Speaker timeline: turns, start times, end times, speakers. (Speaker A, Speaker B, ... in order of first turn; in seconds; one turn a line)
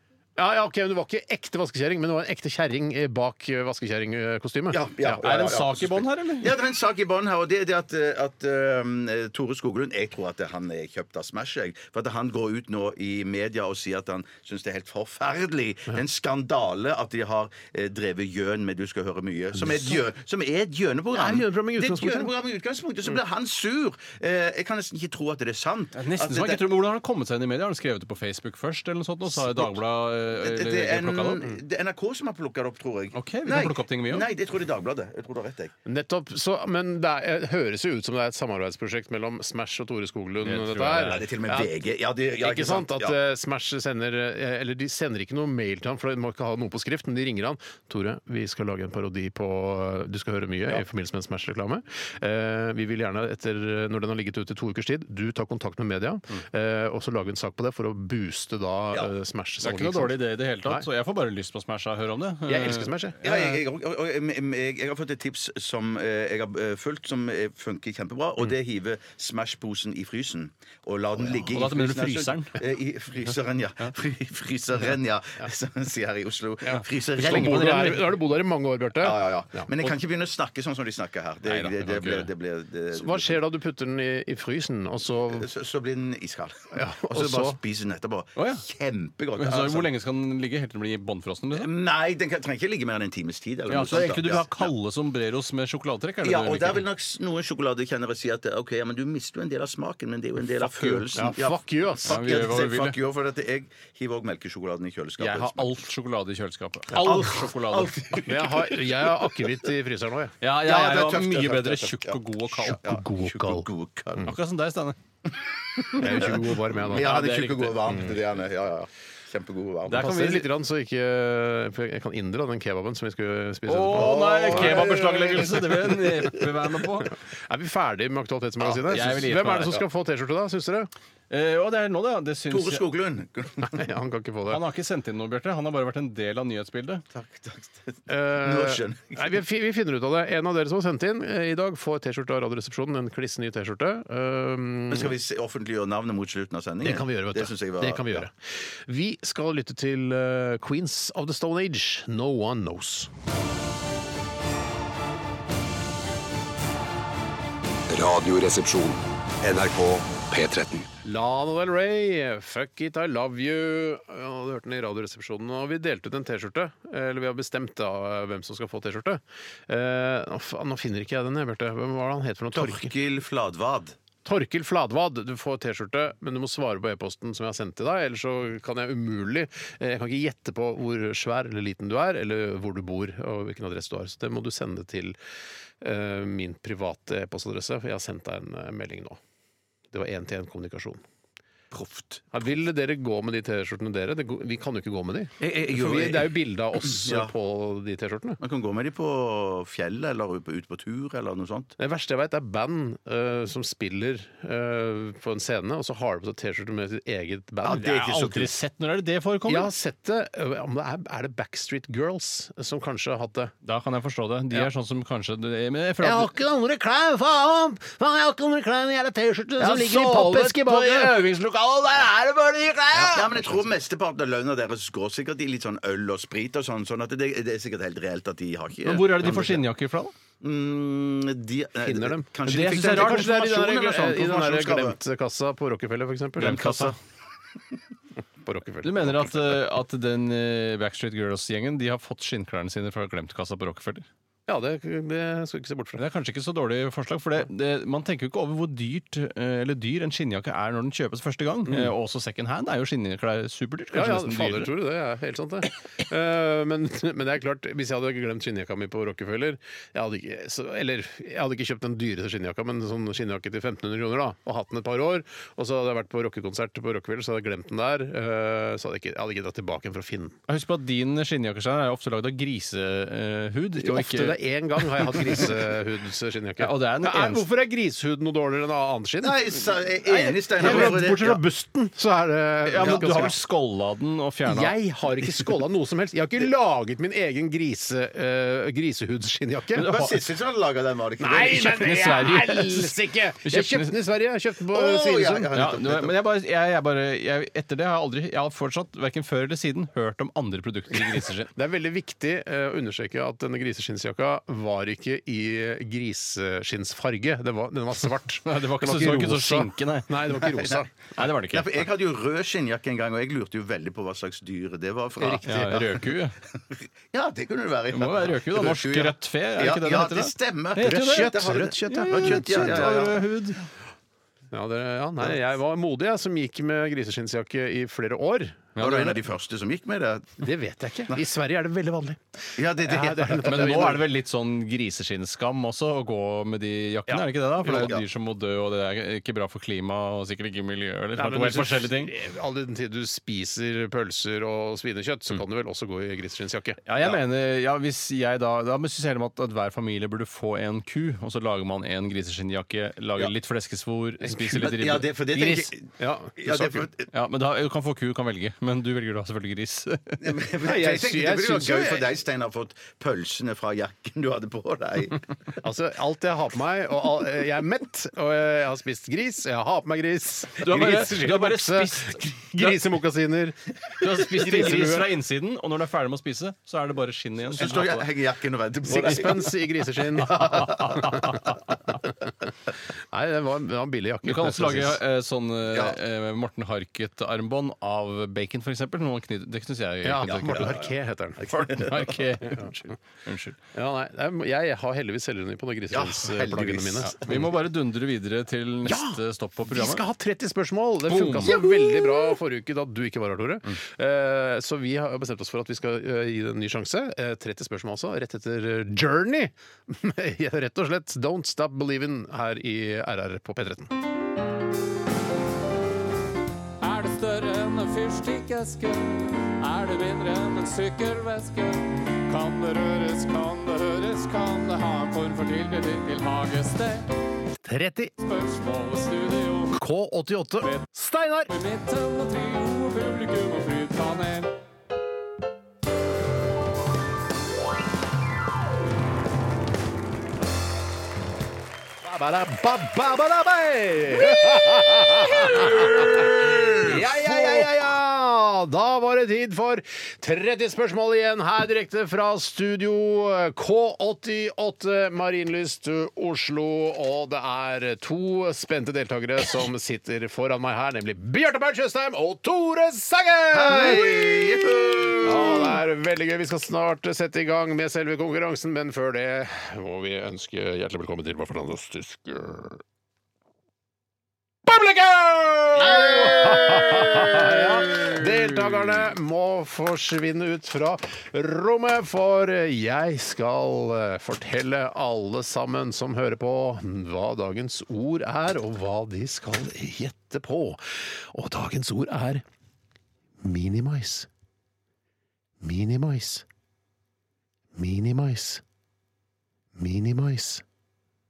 Speaker A: 0.4-5.2
Speaker B: 4.7-26.6
Speaker C: 5.1-6.6
Speaker A: 19.6-19.9
Speaker A: 21.1-22.3
Speaker C: 26.0-31.4
Speaker B: 29.4-29.7
Speaker B: 30.3-35.7
Speaker C: 33.1-34.3
Speaker A: 35.9-41.7
Speaker C: 40.4-41.2
Speaker B: 41.0-43.2
Speaker A: 42.4-60.9
Speaker C: 59.6-63.3
Speaker A: 62.5-63.2
Speaker B: 63.2-77.9
Speaker C: 71.4-72.5
Speaker A: 76.7-79.7
Speaker C: 77.2-78.2
Speaker B: 79.0-83.4
Speaker C: 81.5-82.3
Speaker A: 82.9-85.5
Speaker B: 85.3-89.9
Speaker A: 86.7-87.6
Speaker C: 88.4-88.6
Speaker C: 89.4-91.7
Speaker B: 91.5-94.7
Speaker C: 93.7-96.8
Speaker B: 96.2-105.8
Speaker A: 100.8-102.2
Speaker C: 102.1-103.0
Speaker C: 105.2-108.0
Speaker A: 106.9-107.4
Speaker B: 106.9-109.6
Speaker A: 108.3-110.3
Speaker C: 110.4-112.8
Speaker B: 110.6-114.3
Speaker A: 112.5-113.7
Speaker C: 114.2-115.0
Speaker B: 115.3-120.2
Speaker A: 116.0-117.2
Speaker C: 116.9-118.2
Speaker A: 117.9-118.2
Speaker C: 119.9-120.5
Speaker A: 119.9-125.4
Speaker C: 123.7-127.1
Speaker B: 123.9-126.4
Speaker A: 127.5-130.9
Speaker B: 128.6-129.2
Speaker C: 128.9-129.8
Speaker C: 131.3-132.8
Speaker B: 132.5-133.8
Speaker A: 133.6-134.6
Speaker C: 134.5-137.0
Speaker B: 137.1-139.4
Speaker A: 138.1-145.1
Speaker B: 144.9-148.3
Speaker A: 146.8-153.1
Speaker D: 157.9-160.9
Speaker A: 161.0-172.9
Speaker B: 172.5-174.0
Speaker A: 174.2-185.2
Speaker A: 185.8-189.2
Speaker A: 189.9-191.0
Speaker B: 191.7-192.2
Speaker A: 192.3-198.4
Speaker B: 195.4-197.3
Speaker B: 198.4-201.7
Speaker A: 201.8-208.0
Speaker B: 207.6-208.5
Speaker C: 207.8-209.7
Speaker A: 209.5-213.5
Speaker C: 213.7-216.3
Speaker A: 216.0-221.3
Speaker C: 219.6-221.8
Speaker A: 221.9-223.6
Speaker B: 223.1-229.6
Speaker C: 228.8-230.1
Speaker B: 230.4-235.0
Speaker A: 231.8-236.9
Speaker C: 232.4-233.3
Speaker C: 236.4-236.9
Speaker B: 236.4-237.0
Speaker A: 238.4-239.6
Speaker C: 238.8-244.1
Speaker A: 244.5-246.0
Speaker C: 246.0-254.7
Speaker A: 253.9-270.4
Speaker C: 270.5-275.6
Speaker A: 273.8-283.4
Speaker C: 276.6-277.5
Speaker B: 279.2-281.4
Speaker C: 280.6-281.0
Speaker C: 282.7-284.7
Speaker B: 282.8-283.3
Speaker A: 284.4-289.9
Speaker C: 289.8-290.2
Speaker B: 289.8-292.1
Speaker A: 291.2-295.5
Speaker C: 291.6-293.9
Speaker B: 294.7-296.1
Speaker C: 295.5-301.5
Speaker A: 301.5-310.9
Speaker C: 308.4-311.8
Speaker B: 310.7-323.2
Speaker A: 315.2-315.9
Speaker C: 315.4-316.4
Speaker C: 317.9-323.6
Speaker A: 320.8-322.9
Speaker A: 324.5-328.8
Speaker C: 328.8-329.2
Speaker B: 328.8-330.4
Speaker A: 330.4-334.1
Speaker B: 332.6-334.0
Speaker C: 333.4-342.1
Speaker B: 337.1-338.1
Speaker A: 341.2-346.8
Speaker C: 346.9-355.7
Speaker A: 354.2-354.7
Speaker B: 354.6-355.9
Speaker A: 356.0-356.9
Speaker B: 356.4-357.1
Speaker C: 357.1-360.3
Speaker B: 360.2-365.3
Speaker A: 360.6-362.1
Speaker A: 365.6-375.1
Speaker C: 370.6-373.0
Speaker C: 374.0-378.0
Speaker B: 377.5-381.4
Speaker A: 378.9-381.6
Speaker A: 383.1-385.0
Speaker C: 384.2-390.8
Speaker B: 385.7-386.0
Speaker A: 390.0-391.5
Speaker B: 390.2-392.2
Speaker C: 391.5-393.6
Speaker A: 393.7-397.3
Speaker B: 395.9-397.5
Speaker C: 397.1-400.1
Speaker A: 398.8-413.9
Speaker C: 401.1-401.7
Speaker E: 416.8-427.1
Speaker A: 427.6-428.1
Speaker E: 428.2-429.8
Speaker A: 429.7-431.5
Speaker E: 431.5-434.5
Speaker A: 442.0-464.4
Speaker B: 445.5-446.2
Speaker B: 446.8-447.9
Speaker B: 463.5-465.8
Speaker A: 465.2-472.8
Speaker A: 474.7-492.4
Speaker A: 493.4-494.3
Speaker A: 495.6-496.4
Speaker A: 497.8-498.6
Speaker A: 499.8-500.6